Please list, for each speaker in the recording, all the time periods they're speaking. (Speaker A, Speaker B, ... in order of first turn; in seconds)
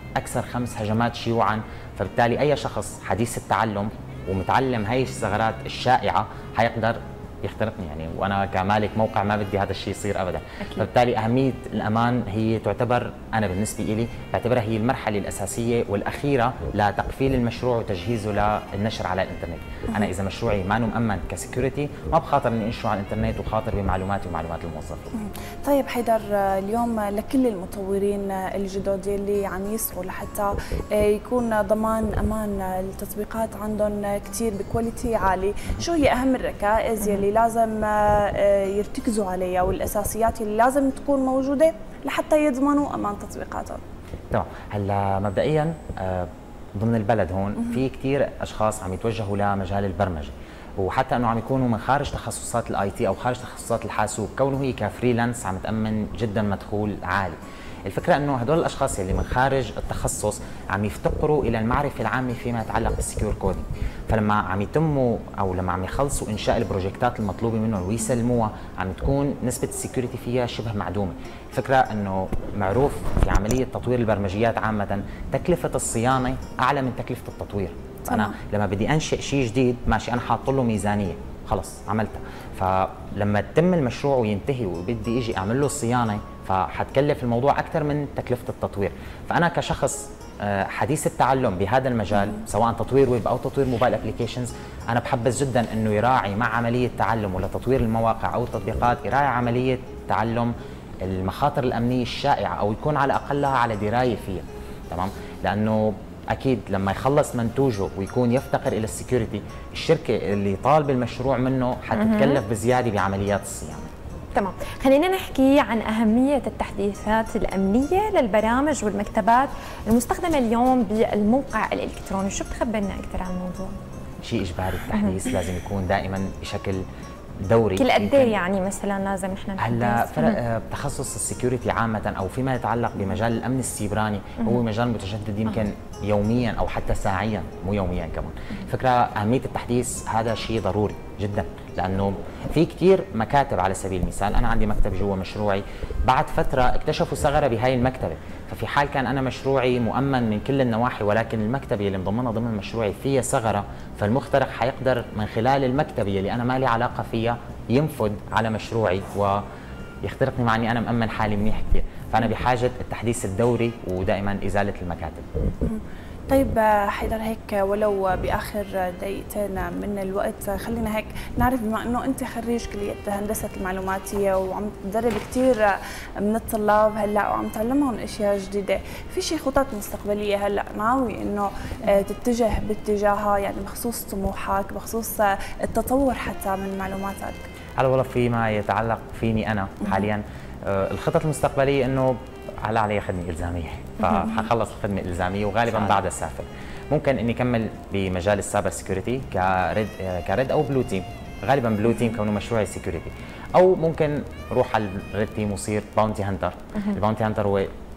Speaker A: 0.2-25.0, 44.3-100.5, 101.0-113.9, 124.2-126.8, 127.4-128.3, 129.6-159.4, 160.0-165.2, 187.8-207.7
Speaker B: 25.1-43.8, 47.6-47.8, 78.1-78.3, 165.6-187.4
Speaker C: 111.9-112.4, 114.3-123.8, 127.8-130.4